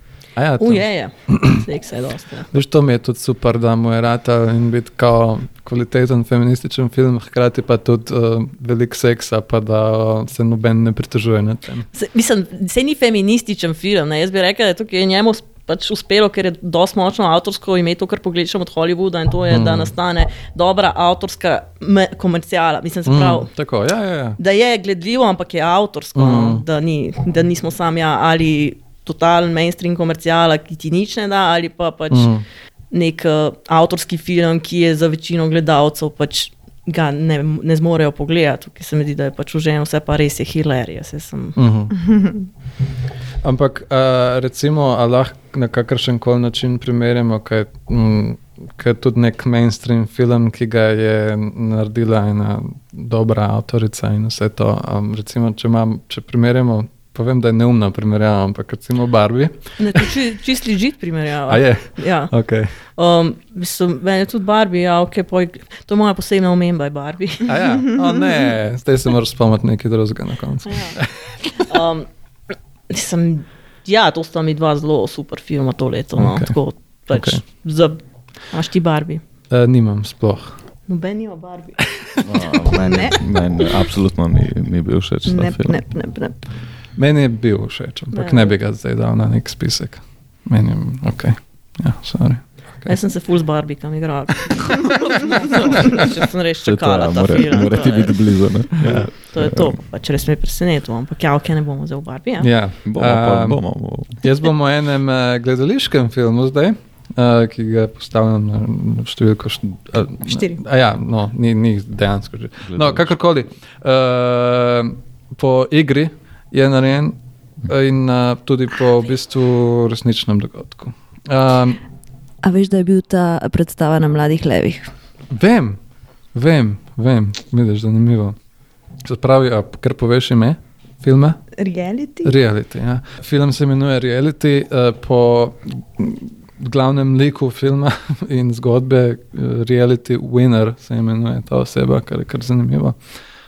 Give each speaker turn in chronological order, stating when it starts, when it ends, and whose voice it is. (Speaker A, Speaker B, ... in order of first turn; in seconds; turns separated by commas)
Speaker A: 0.4-1.6, Speaker B: 0.6-2.5, Speaker A: 2.5-11.9, Speaker B: 11.9-23.5, Speaker A: 19.5-19.9, Speaker A: 23.1-24.4, Speaker B: 24.4-32.3, Speaker A: 26.2-26.6, Speaker A: 32.1-32.4, Speaker B: 32.9-41.6, Speaker A: 41.6-42.0, Speaker C: 42.0-42.5, Speaker A: 43.4-59.6, Speaker B: 59.8-62.3, Speaker A: 61.5-62.8, Speaker B: 63.0-67.6, Speaker A: 67.5-71.5, Speaker B: 70.7-71.0, Speaker B: 71.5-72.1, Speaker B: 72.9-79.2, Speaker A: 76.2-76.5, Speaker A: 77.1-77.4, Speaker A: 79.5-80.6, Speaker B: 80.9-81.8, Speaker D: 82.2-85.8, Speaker C: 82.7-83.2, Speaker C: 85.3-86.4, Speaker A: 87.0-93.0, Speaker B: 88.1-88.5, Speaker B: 92.9-98.2, Speaker A: 94.6-96.1, Speaker D: 96.6-99.8, Speaker A: 98.8-99.1, Speaker B: 99.3-102.5, Speaker A: 102.4-103.6, Speaker D: 102.8-104.2, Speaker A: 104.2-121.8, Speaker D: 112.7-113.1, Speaker C: 122.4-124.9, Speaker A: 125.3-125.8, Speaker A: 126.3-128.4, Speaker A: 129.0-131.4, Speaker C: 131.6-132.4, Speaker A: 132.2-143.0